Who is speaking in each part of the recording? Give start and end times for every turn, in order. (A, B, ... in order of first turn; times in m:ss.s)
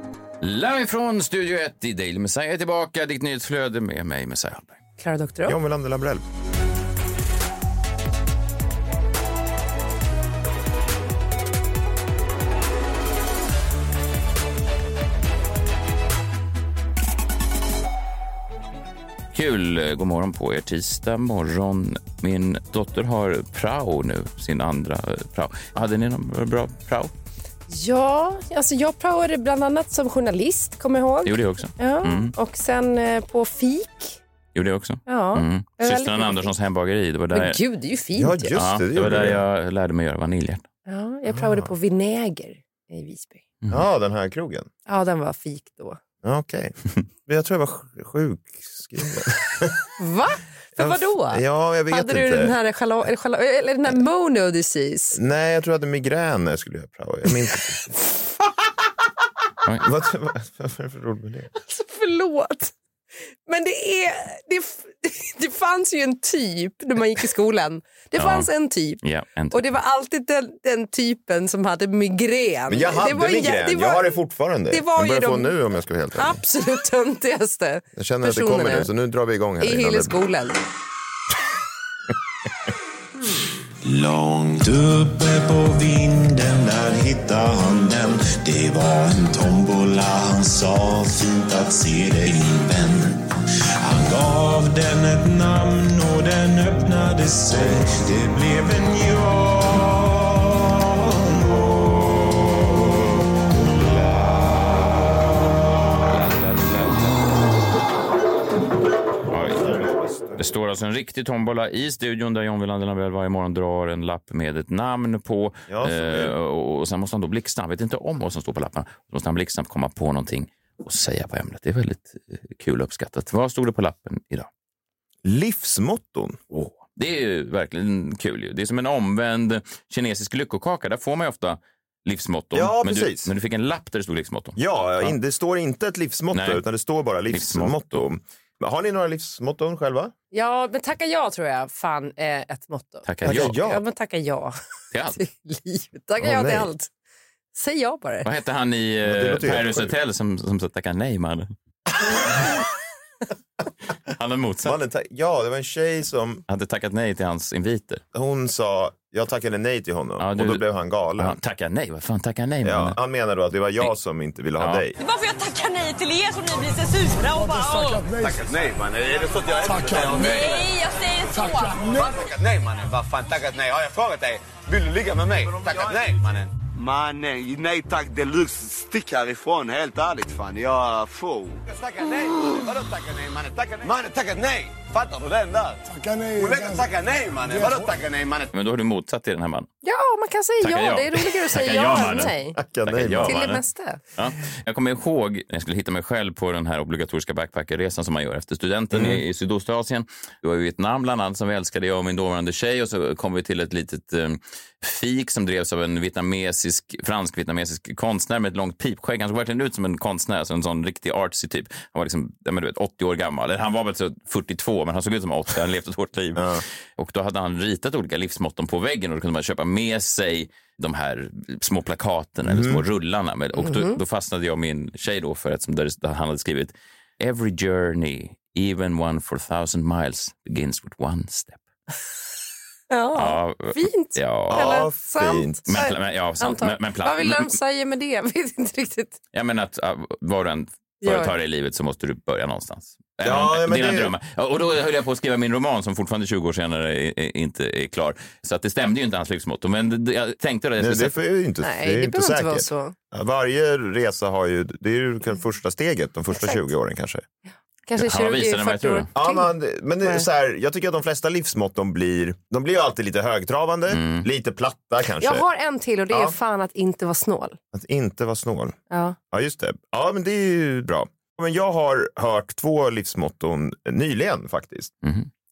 0:00.4-0:04.7 A
0:05.0-0:05.6 B
0:05.4-0:06.2 C
0:19.3-0:27.1 A
0:27.7-0:34.2 B
0:31.2-0:32.3 A
0:34.5-0:37.6 A
0:35.1-0:36.5 B
0:37.3-0:38.6 B
0:38.2-0:39.4 C
0:38.5-0:40.6 A
0:40.9-0:43.4 B
0:41.3-0:41.7 C
0:43.7-0:44.7 C
0:44.9-0:46.0 B
0:46.2-0:46.7 C
0:47.2-0:49.8 C
0:50.0-0:55.2 B
0:50.8-0:52.5 C
0:55.1-0:58.0 C
0:59.8-1:01.5 C
1:01.6-1:02.7 B
1:03.5-1:09.0 B
1:08.2-1:08.5 A
1:09.0-1:09.6 A
1:09.5-1:14.0 B
1:12.7-1:16.4 C
1:14.7-1:15.5 B
1:16.1-1:18.9 B
1:18.0-1:20.3 C
1:19.6-1:20.7 B
1:23.8-1:45.3 D
1:46.0-1:47.2 A
1:49.3-1:49.6 A
1:49.6-1:50.4 C
1:50.4-2:04.5 A
1:55.7-1:56.3 C
2:05.2-2:06.4 C
2:06.5-2:15.1 A
2:12.5-2:13.3 C
2:14.6-2:20.1 C
2:16.3-2:16.6 A
2:17.3-2:18.0 A
2:20.3-2:24.6 B
2:23.0-2:23.5 A
2:23.2-2:23.8 C
2:24.9-2:25.2 A
2:25.2-2:26.9 B
2:26.2-2:26.7 C
2:27.5-2:28.3 B
2:28.2-2:31.5 A
2:29.0-2:29.9 C
2:34.1-2:34.8 A
2:34.6-2:36.4 C
2:36.5-2:38.0 A
2:38.1-2:41.4 C
2:40.2-2:40.6 A
2:41.2-2:43.0 A
2:42.6-2:45.0 C
2:44.6-2:44.8 A
2:46.5-2:47.5 E
2:48.0-2:50.7 F
2:50.1-2:51.4 E
2:51.8-3:05.8 F
3:06.3-3:08.5 F
3:08.5-3:09.7 A
3:09.8-3:12.6 B
3:10.6-3:13.6 A
3:12.5-3:13.4 C
3:13.2-3:14.0 B
3:14.2-3:51.6 A
3:18.9-3:19.2 C
3:36.4-3:36.6 C
3:42.4-3:42.8 C
3:43.6-3:44.0 B
3:52.9-3:59.2 B
3:53.1-3:54.8 A
3:54.5-3:55.8 C
3:55.7-3:57.5 A
3:59.3-4:11.2 A
4:01.0-4:01.3 B
4:03.2-4:04.1 C
4:10.8-4:17.2 C
4:11.6-4:12.9 B
4:17.9-4:19.5 B
4:18.0-4:19.1 A
4:19.1-4:25.4 C
4:23.9-4:24.3 A
4:25.2-4:27.6 B
4:27.7-4:28.8 C
4:28.9-4:29.2 B
4:29.3-4:34.9 C
4:35.0-4:35.3 A